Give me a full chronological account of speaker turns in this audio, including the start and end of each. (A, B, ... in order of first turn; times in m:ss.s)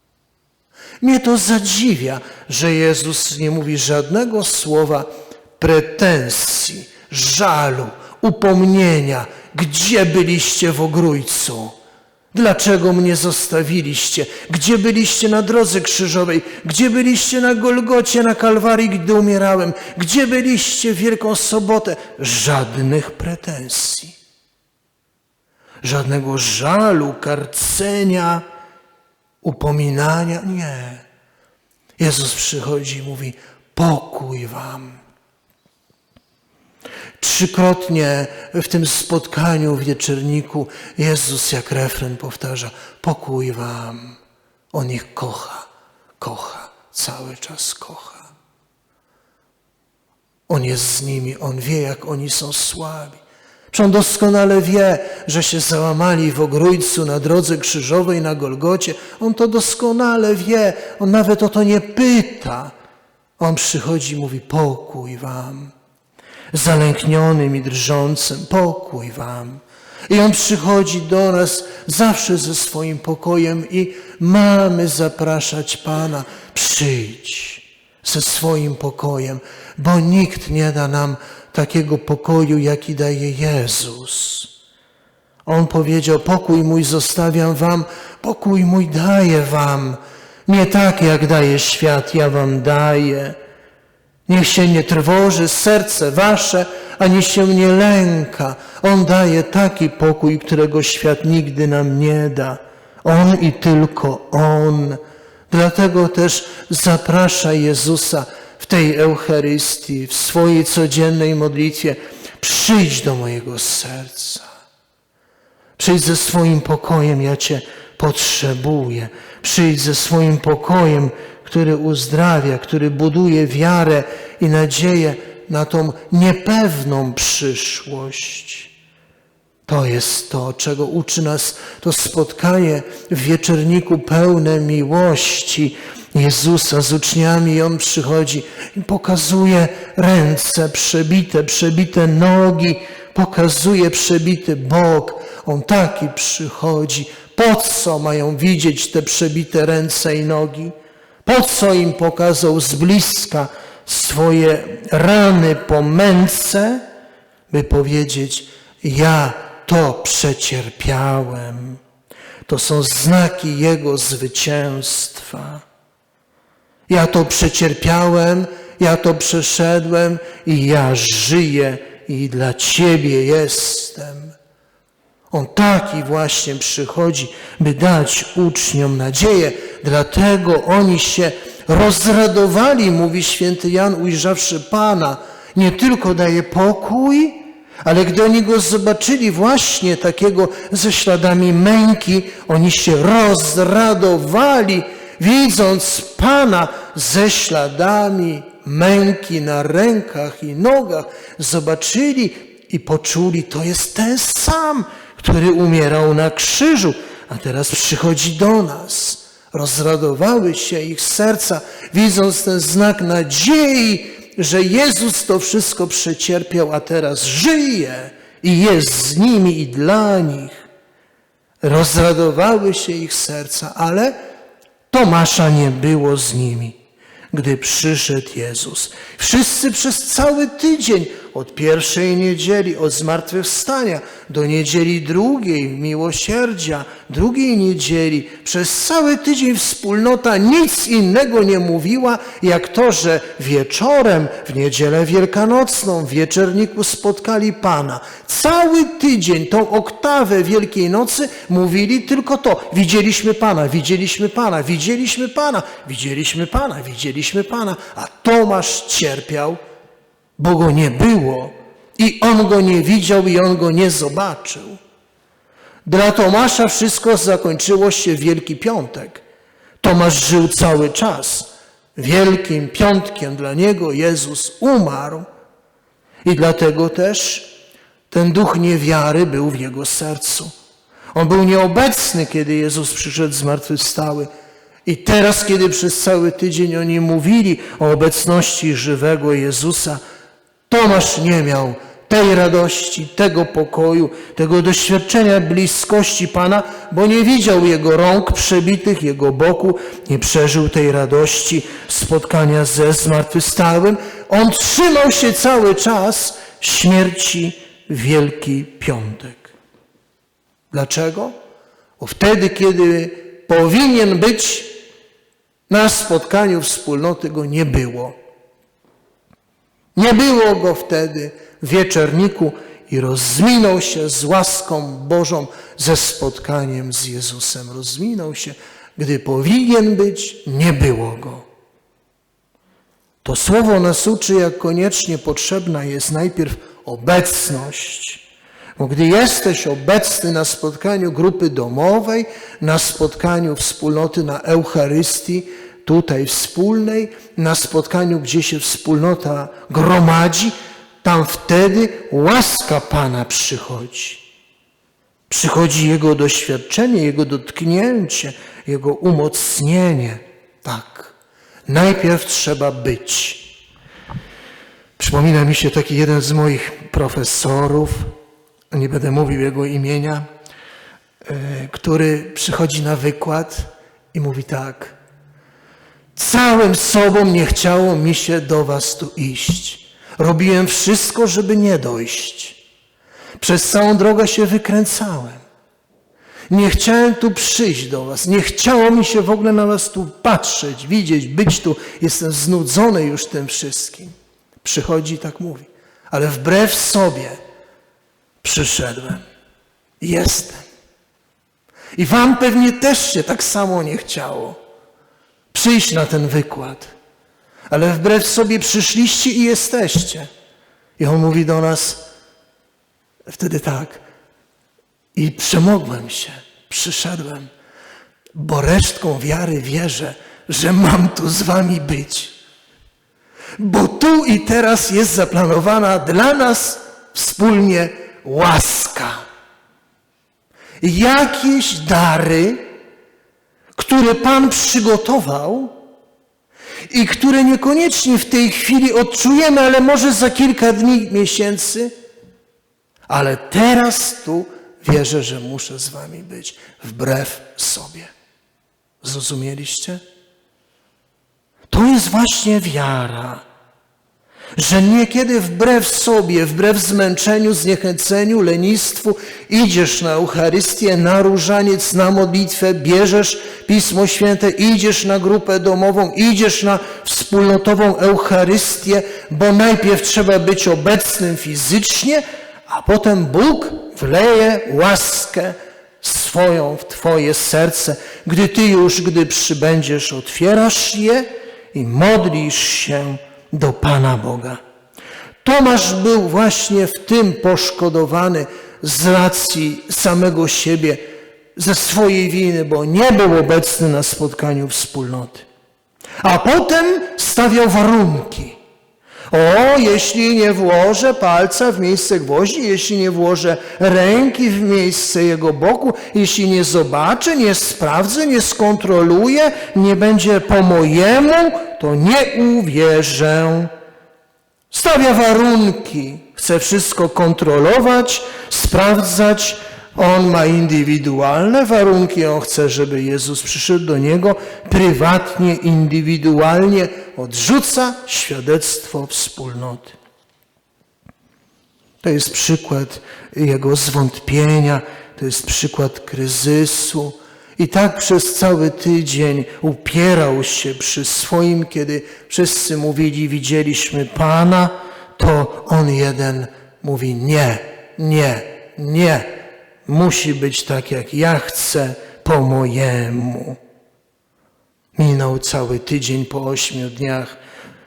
0:01.0-0:11.8 A
0:12.3-0:24.2 A
0:25.8-0:28.4 A
0:29.4-0:31.0 A
0:32.0-0:35.0 A
0:37.2-0:44.2 A
0:44.7-0:45.7 A
0:46.2-0:48.3 A
0:50.5-1:02.7 A
1:03.4-1:05.7 A
1:06.5-1:24.5 A
1:25.5-1:33.4 A
1:34.3-1:54.5 A
1:55.8-2:08.7 A
2:09.7-2:30.7 A
2:31.2-2:36.8 A
2:37.5-2:41.8 A
2:42.5-2:45.6 A
2:46.9-2:54.4 A
2:55.3-3:40.7 A
3:41.6-3:44.2 A
3:44.9-3:46.8 A
3:47.3-4:19.6 A
4:20.4-4:24.8 A
4:25.8-4:29.2 A
4:29.8-4:35.3 A
4:36.2-4:37.5 A
4:38.1-4:40.5 A
4:41.2-4:44.3 A
4:44.9-4:50.0 A
4:50.7-5:09.5 A
5:10.7-5:11.4 A
5:12.0-5:14.7 A
5:15.7-5:18.2 A
5:20.0-5:31.5 A
5:33.2-5:38.2 A
5:38.8-5:54.2 A
5:55.3-6:01.2 A
6:01.7-6:03.5 A
6:05.0-6:08.1 A
6:08.7-6:10.2 A
6:11.2-6:15.0 A
6:16.2-6:22.6 A
6:23.4-6:25.4 A
6:26.5-6:37.4 A
6:38.4-6:39.2 A
6:40.0-6:40.6 A
6:42.0-6:44.6 A
6:45.5-6:46.9 A
6:47.7-6:50.3 A
6:51.0-6:52.0 A
6:53.3-6:54.0 A
6:55.2-6:57.5 A
6:58.4-7:02.4 A
7:03.6-7:09.2 A
7:10.8-7:12.7 A
7:13.8-7:15.8 A
7:16.9-7:21.9 A
7:23.1-7:28.1 A
7:29.0-7:30.0 A
7:31.7-7:33.4 A
7:34.6-8:04.6 A
8:05.4-8:11.0 A
8:11.6-8:15.5 A
8:16.2-8:18.6 A
8:19.3-8:33.7 A
8:34.7-8:50.0 A
8:52.0-9:09.3 A
9:09.9-9:13.6 A
9:15.0-9:17.4 A